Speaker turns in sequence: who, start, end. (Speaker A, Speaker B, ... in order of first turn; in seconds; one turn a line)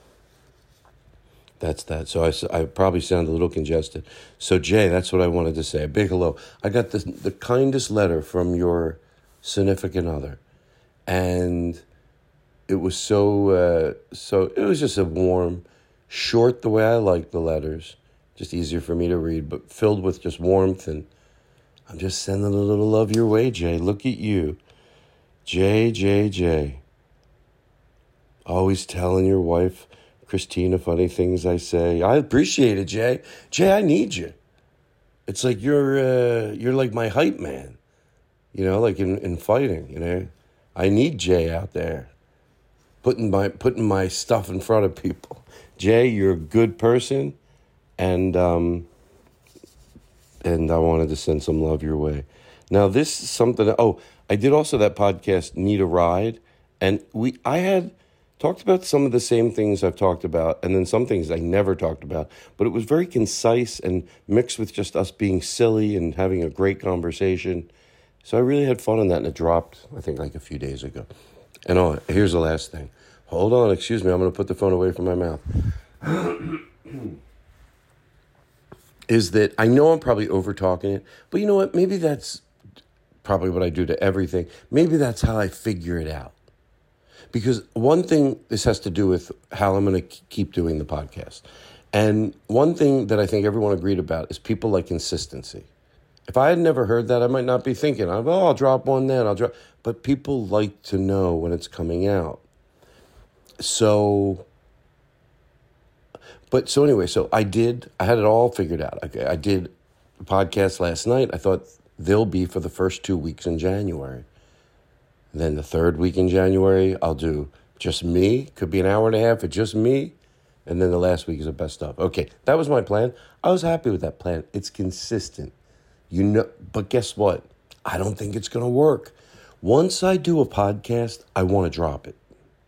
Speaker A: 1.6-10.4
Speaker A: 11.1-11.8
Speaker A: 12.7-21.1
Speaker A: 21.9-24.6
Speaker A: 25.4-26.8
Speaker A: 28.5-34.4
Speaker A: 35.3-37.8
Speaker A: 38.5-42.1
Speaker A: 43.0-47.4
Speaker A: 48.0-48.9
Speaker A: 50.4-67.7
Speaker A: 68.2-71.1
Speaker A: 71.7-75.4
Speaker A: 76.0-77.2
Speaker A: 79.1-82.4
Speaker A: 83.2-86.3
Speaker A: 87.3-95.7
Speaker A: 96.3-102.4
Speaker A: 103.6-104.5
Speaker A: 106.5-114.3
Speaker A: 115.3-125.5
Speaker A: 126.1-132.2